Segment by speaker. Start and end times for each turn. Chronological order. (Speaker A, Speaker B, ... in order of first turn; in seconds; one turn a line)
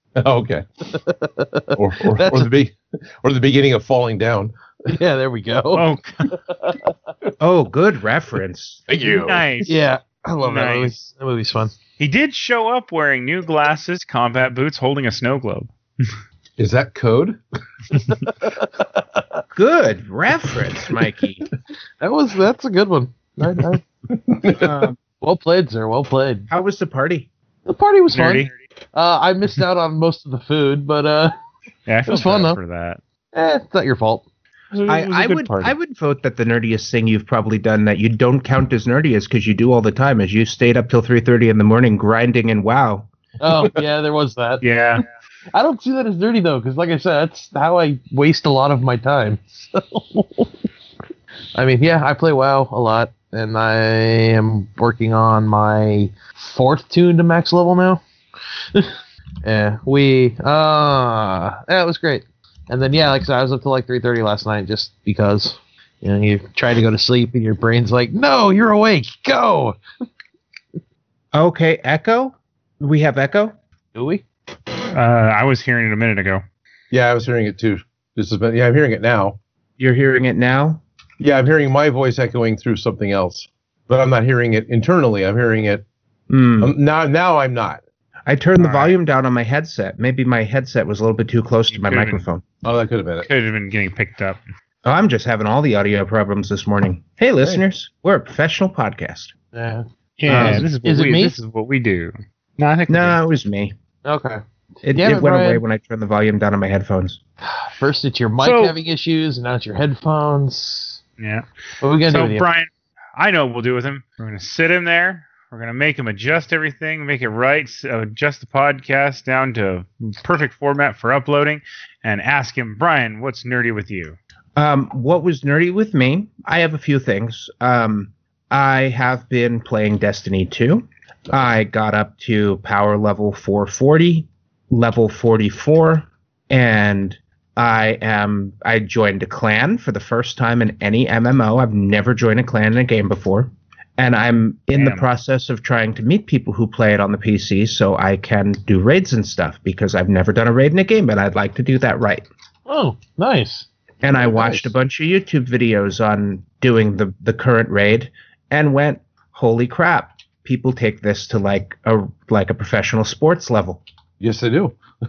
Speaker A: 0.2-0.7
Speaker B: 0.9-2.5
Speaker A: 1.7-5.0
Speaker B: 4.9-6.9
Speaker C: 5.7-6.3
Speaker D: 7.4-8.8
Speaker A: 8.9-9.7
Speaker C: 9.0-9.8
Speaker B: 9.7-11.8
Speaker C: 10.4-10.9
Speaker C: 12.0-16.1
Speaker A: 16.6-17.4
Speaker B: 18.3-19.4
Speaker D: 19.5-21.4
Speaker B: 22.0-23.8
Speaker A: 23.6-24.8
Speaker D: 24.5-25.0
Speaker B: 25.2-26.5
Speaker D: 26.5-27.3
Speaker B: 27.7-31.3
Speaker C: 28.1-28.6
Speaker C: 31.9-33.0
Speaker B: 32.1-32.6
Speaker B: 33.3-34.2
Speaker C: 34.7-35.7
Speaker D: 34.9-43.1
Speaker B: 43.4-44.6
Speaker C: 44.6-45.0
Speaker B: 45.5-50.5
Speaker B: 51.5-58.0
Speaker B: 59.4-69.8
Speaker D: 71.3-73.6
Speaker B: 74.0-74.2
Speaker C: 74.9-76.4
Speaker A: 76.9-79.4
Speaker D: 79.8-80.8
Speaker A: 81.2-85.8
Speaker D: 86.3-86.7
Speaker A: 86.6-87.8
Speaker D: 88.3-92.4
Speaker C: 88.6-88.9
Speaker C: 91.7-92.2
Speaker A: 92.6-93.3
Speaker C: 93.2-94.4
Speaker D: 94.8-99.3
Speaker B: 99.5-101.4
Speaker C: 100.2-103.2
Speaker D: 100.3-100.7
Speaker D: 102.9-103.7
Speaker B: 104.0-104.4
Speaker D: 104.8-107.2
Speaker B: 105.0-105.6
Speaker B: 107.4-111.0
Speaker C: 108.4-108.8
Speaker C: 111.2-111.5
Speaker B: 111.8-112.5
Speaker C: 112.1-124.2
Speaker D: 124.6-152.2
Speaker C: 144.7-145.1
Speaker B: 152.7-153.7
Speaker D: 154.0-163.8
Speaker A: 154.1-154.7
Speaker A: 164.2-164.8